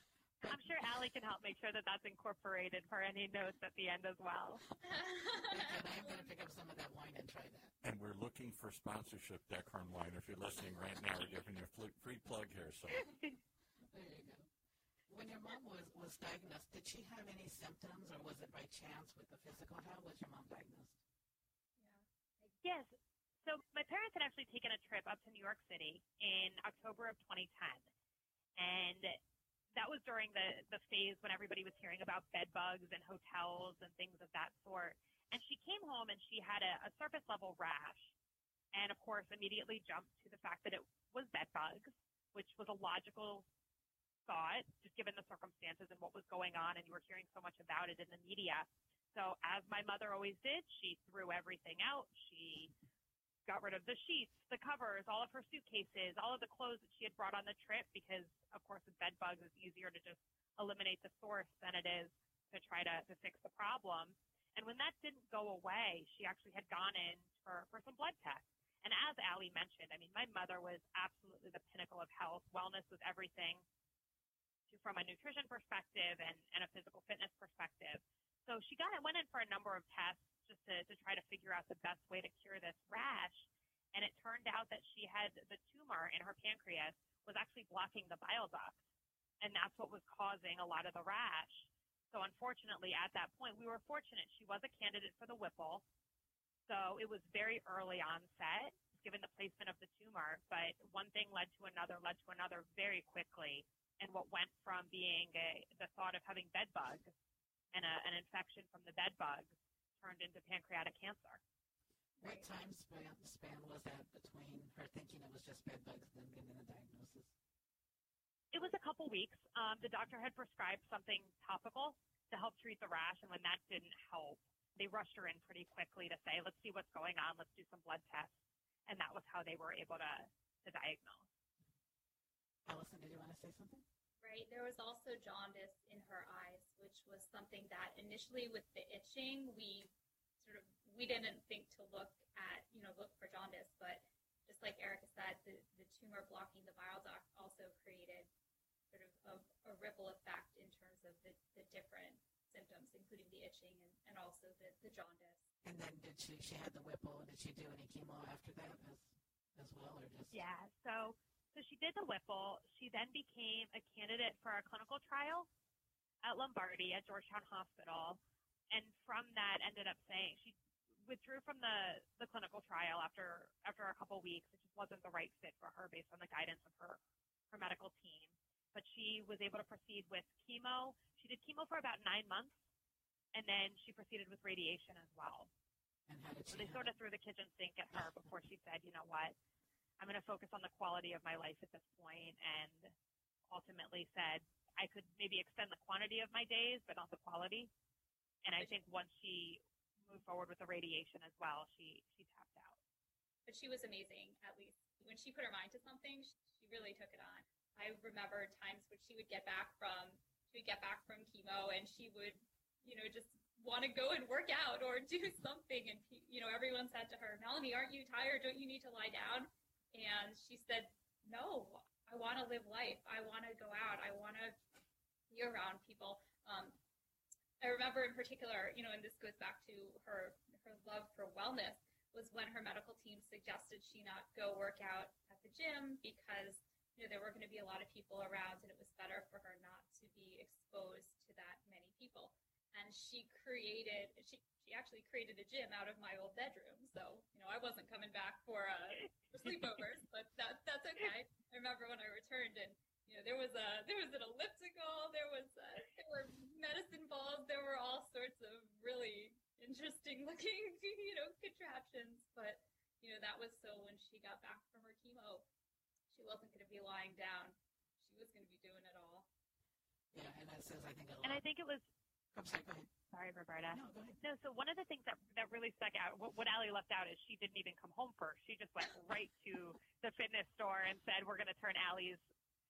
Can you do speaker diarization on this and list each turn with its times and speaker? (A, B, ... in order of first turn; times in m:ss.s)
0:00.4-0:00.7 A
0:00.4-0:04.6 B
0:04.8-0:06.3 C
0:05.4-0:07.7 A
0:07.8-0:13.1 D
0:13.9-0:14.5 A
0:15.1-0:21.0 A
0:21.8-0:22.6 C
0:22.6-0:22.9 B
0:23.4-0:27.8 B
0:28.6-0:29.2 B
0:29.7-0:38.1 B
0:38.7-0:43.4 B
0:44.2-0:52.7 B
0:53.4-1:13.6 B
1:14.7-1:28.8 B
1:29.4-1:35.8 B
1:36.7-1:47.1 B
1:47.7-1:51.4 B
1:52.2-1:57.3 A
1:58.5-2:08.3 B
2:08.9-2:11.3 B
2:12.7-2:13.8 A
2:14.2-2:28.3 C
2:28.9-2:35.4 C
2:35.6-2:40.4 A
2:40.3-2:45.5 B
2:46.2-2:48.2 B
2:48.7-2:57.0 B
2:57.5-3:02.5 B
3:03.3-3:05.5 B
3:06.1-3:06.9 A
3:06.5-3:09.3 B
3:10.0-3:12.9 B
3:13.5-3:17.7 B
3:18.4-3:22.8 B
3:23.4-3:44.6 C
3:45.3-3:46.8 C
3:47.6-4:25.4 C
4:26.1-4:29.3 C
4:30.1-4:31.4 A
4:31.2-4:31.8 B
4:32.3-4:32.9 A
4:33.1-4:42.2 B
4:33.7-4:34.2 A